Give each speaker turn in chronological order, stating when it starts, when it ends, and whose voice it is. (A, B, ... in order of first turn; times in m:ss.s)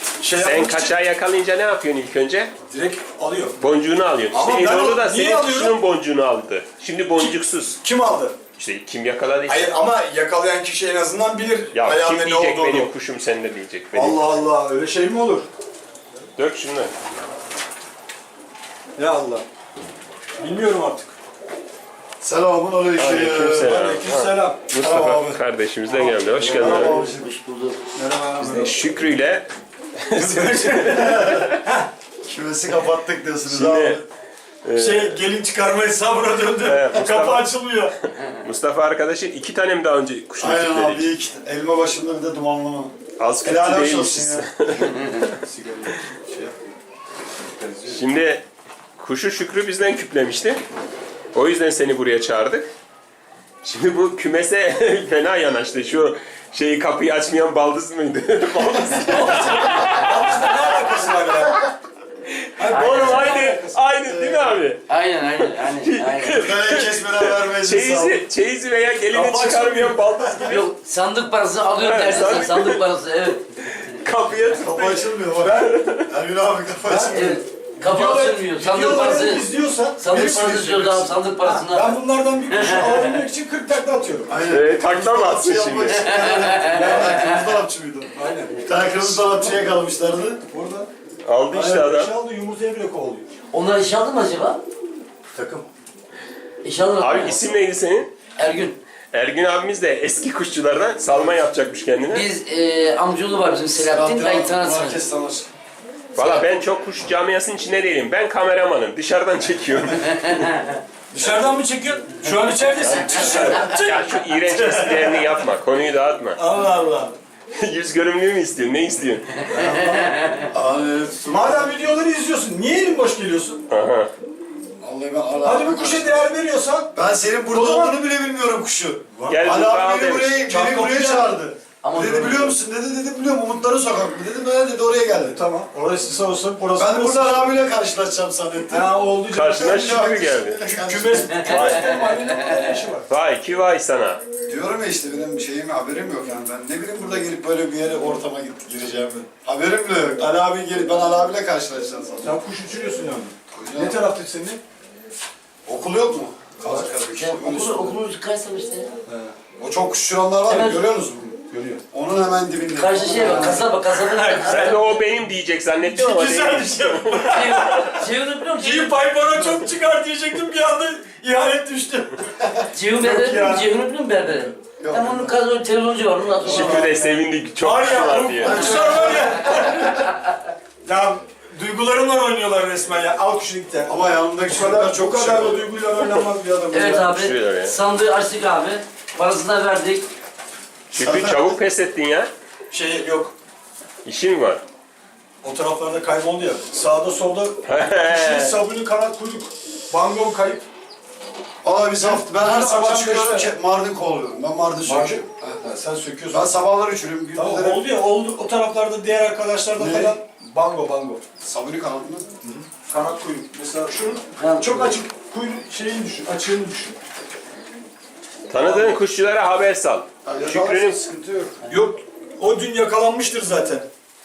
0:00.2-0:00.9 A
0:00.4-0:02.5 B
0:02.7-0:03.6 A
0:03.6-0:07.8 B
0:04.3-0:05.8 A
0:07.2-0:08.4 A
0:08.6-0:09.8 B
0:09.5-0:12.9 A
0:11.7-0:14.4 B
0:13.9-0:15.5 A
0:16.4-0:16.9 B
0:19.0-0:19.4 A
0:20.4-0:21.2 A
0:22.2-0:23.8 C
0:22.9-0:27.0 B
0:23.5-0:24.8 A
0:24.8-0:25.4 C
0:25.9-0:26.8 A
0:26.3-0:27.3 C
0:26.4-0:27.8 D
0:27.9-0:28.8 A
0:28.4-0:29.5 B
0:30.0-0:31.6 B
0:30.1-0:31.9 A
0:31.2-0:31.5 C
0:32.2-0:34.0 C
0:33.4-0:34.0 B
0:34.6-0:35.2 B
0:34.8-0:37.9 A
0:36.6-0:41.1 B
0:40.4-0:44.5 C
0:43.2-0:45.3 B
0:44.8-0:46.5 A
0:47.6-0:48.0 A
0:47.8-0:48.4 B
0:49.0-0:50.6 B
0:51.3-0:52.7 B
0:53.6-1:00.6 B
0:59.0-1:01.7 A
1:02.3-1:04.8 B
1:02.6-1:04.5 A
1:02.7-1:03.6 D
1:04.9-1:06.4 D
1:05.4-1:10.7 B
1:06.3-1:08.2 C
1:09.1-1:10.5 A
1:10.4-1:13.4 D
1:11.8-1:12.8 B
1:13.6-1:14.9 B
1:14.6-1:17.4 C
1:14.7-1:15.8 A
1:15.6-1:16.1 B
1:16.8-1:20.3 A
1:17.1-1:23.2 D
1:20.1-1:21.1 C
1:21.4-1:24.4 A
1:24.3-1:30.4 C
1:24.5-1:26.3 B
1:26.0-1:27.4 D
1:26.6-1:27.3 A
1:28.1-1:29.6 A
1:30.5-1:30.9 A
1:31.2-1:32.1 B
1:31.5-1:33.3 A
1:33.5-1:34.6 D
1:35.3-1:35.7 A
1:36.6-1:37.4 D
1:37.0-1:38.2 B
1:38.4-1:38.8 D
1:39.1-1:42.3 B
1:42.1-1:45.0 D
1:43.7-1:45.5 C
1:46.1-1:50.4 B
1:46.2-1:46.4 D
1:50.0-1:50.8 D
1:51.1-1:55.4 A
1:52.8-1:53.8 C
1:53.6-1:56.4 B
1:56.4-1:57.1 A
1:57.5-1:59.5 B
1:59.5-1:59.9 A
1:59.5-2:01.8 C
1:59.7-2:00.4 D
2:01.2-2:03.6 A
2:03.7-2:04.1 B
2:04.8-2:06.3 C
2:05.4-2:06.9 A
2:06.9-2:15.4 C
2:07.5-2:08.0 A
2:09.1-2:09.5 A
2:09.3-2:10.4 B
2:10.4-2:11.4 A
2:11.8-2:12.5 D
2:15.3-2:17.6 A
2:16.8-2:18.9 C
2:18.7-2:20.0 A
2:19.3-2:20.6 B
2:19.6-2:21.7 C
2:20.6-2:23.1 A
2:21.6-2:21.8 B
2:23.1-2:24.2 B
2:24.4-2:32.4 C
2:32.2-2:34.6 A
2:33.5-2:34.0 C
2:35.6-2:38.0 C
2:36.7-2:38.9 D
2:39.1-2:39.3 A
2:39.6-2:43.6 C
2:40.5-2:40.8 D
2:41.5-2:41.8 A
2:42.8-2:44.8 D
2:43.1-2:44.9 A
2:44.4-2:47.6 B
2:45.8-2:48.1 A
2:47.3-2:49.0 D
2:48.6-2:53.7 A
2:52.7-2:56.9 D
2:54.4-2:55.3 C
2:56.4-2:56.9 C
2:56.4-2:58.7 B
2:56.5-2:57.0 A
2:57.6-3:00.2 A
2:58.2-2:59.3 C
2:58.5-2:59.1 D
3:00.8-3:07.2 A
3:03.8-3:05.7 C
3:06.7-3:10.1 D
3:07.1-3:07.8 B
3:10.9-3:12.3 B
3:10.9-3:11.6 C
3:12.7-3:13.3 A
3:14.0-3:14.6 B
3:15.4-3:20.6 A
3:17.6-3:18.6 B
3:21.6-3:25.7 C
3:22.0-3:23.5 A
3:24.8-3:26.6 A
3:26.3-3:27.8 C
3:27.3-3:31.2 A
3:29.8-3:30.2 C
3:31.4-3:32.2 C
3:32.4-3:37.0 A
3:34.4-3:35.0 D
3:38.5-3:41.0 B
3:38.6-3:38.9 A
3:40.2-3:41.6 C
3:41.7-3:43.9 A